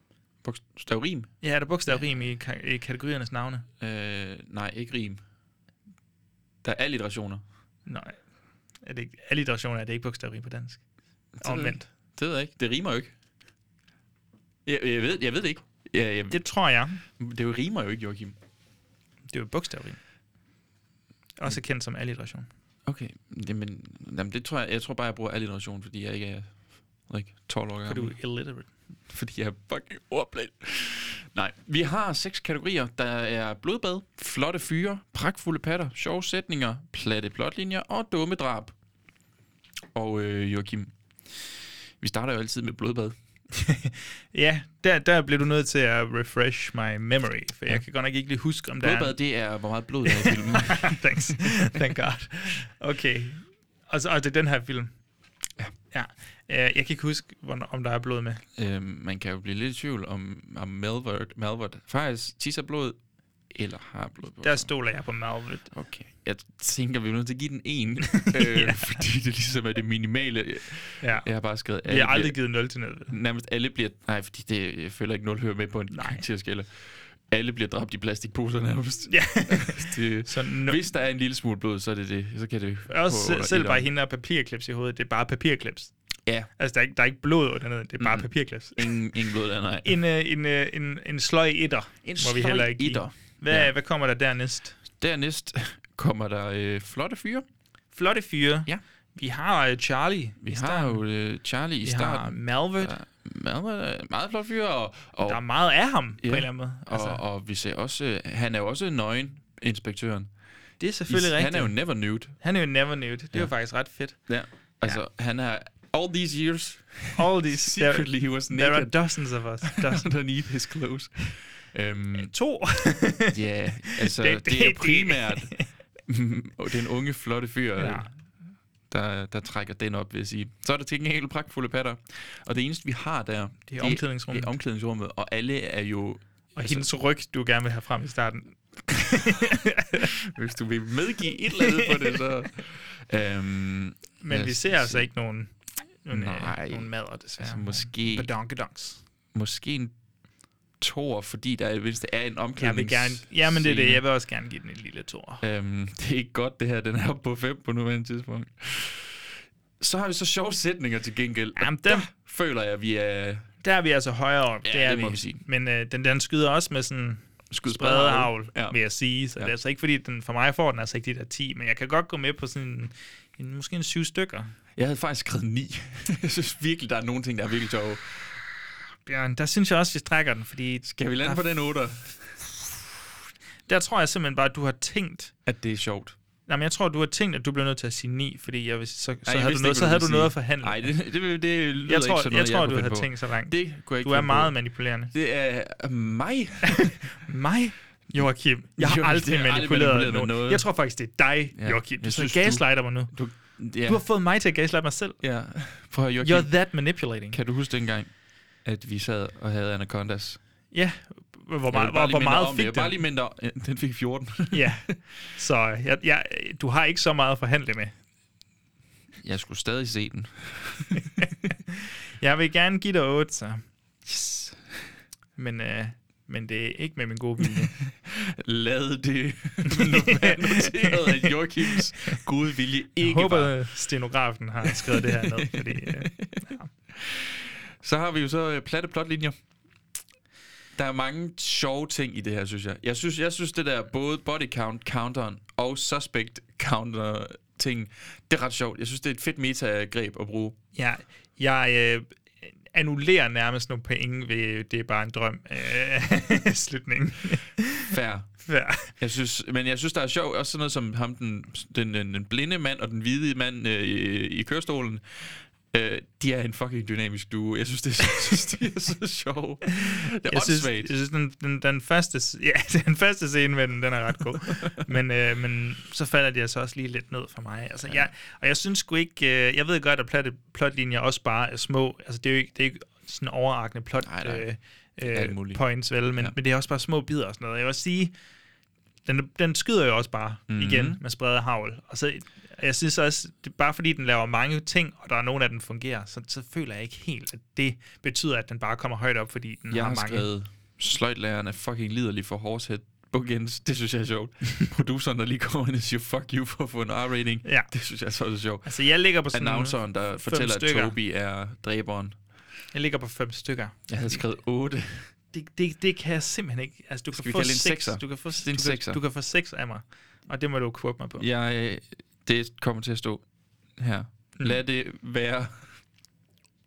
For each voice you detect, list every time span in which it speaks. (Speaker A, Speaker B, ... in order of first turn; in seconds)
Speaker A: 0.4-1.3, 3.8-5.2, 6.6-7.4, 11.4-13.1, 14.7-16.4, 17.2-18.4, 22.9-26.6, 27.1-28.2, 29.1-38.7, 39.9-41.4, 42.0-43.2, 48.8-51.4, 58.5-63.0, 63.5-64.7, 65.7-72.4, 73.1-83.9, 88.0-90.0, 92.0-93.7, 95.0-97.5, 100.4-105.5, 106.2-110.3, 111.1-112.4, 114.3-119.0, 119.6-122.3, 123.3-128.1, 128.9-136.9, 140.3-145.1, 146.1-148.3, 149.3-149.9, 150.8-154.0, 155.4-163.5, 164.7-165.4, 167.5-168.8, 174.8-178.3, 180.8-182.7, 185.5-186.2, 189.2-194.6, 195.1-196.9, 198.8-200.8, 201.6-204.0, 205.2-210.4, 211.7-214.9, 219.2-221.0, 224.1-224.6, 227.4-233.6, 234.6-239.4, 240.8-250.6, 257.9-270.9, 284.0-284.5, 285.0-286.4, 290.5-291.0, 299.7-312.2, 313.9-315.1, 317.1-319.0, 321.2-323.2, 323.8-325.6
Speaker B: 1.4-3.7, 7.9-8.2, 8.8-10.8, 11.4-11.9, 16.3-17.0, 19.3-20.0, 21.4-22.5, 27.9-28.7, 43.5-49.2, 50.1-54.9, 55.9-58.4, 64.4-65.7, 68.2-69.0, 71.0-71.3, 71.8-73.1, 75.9-76.2, 79.1-80.8, 82.9-85.9, 86.6-89.0, 89.8-94.8, 97.9-101.0, 101.8-103.0, 105.3-107.2, 110.8-111.8, 112.4-114.2, 117.2-120.1, 122.2-123.4, 123.9-125.7, 127.8-128.1, 133.7-134.5, 136.6-140.1, 141.7-141.9, 144.2-149.0, 152.6-155.4, 161.6-162.1, 163.6-174.5, 179.1-181.5, 183.7-185.3, 186.5-190.9, 191.8-195.1, 196.8-205.2, 206.2-207.4, 210.7-212.9, 214.5-217.9, 221.0-223.6, 225.4-227.7, 229.7-232.2, 233.0-236.7, 250.7-257.9, 258.4-258.9, 270.3-288.1, 289.1-300.3, 307.4-307.7, 308.6-311.0, 312.7-314.2, 315.3-321.3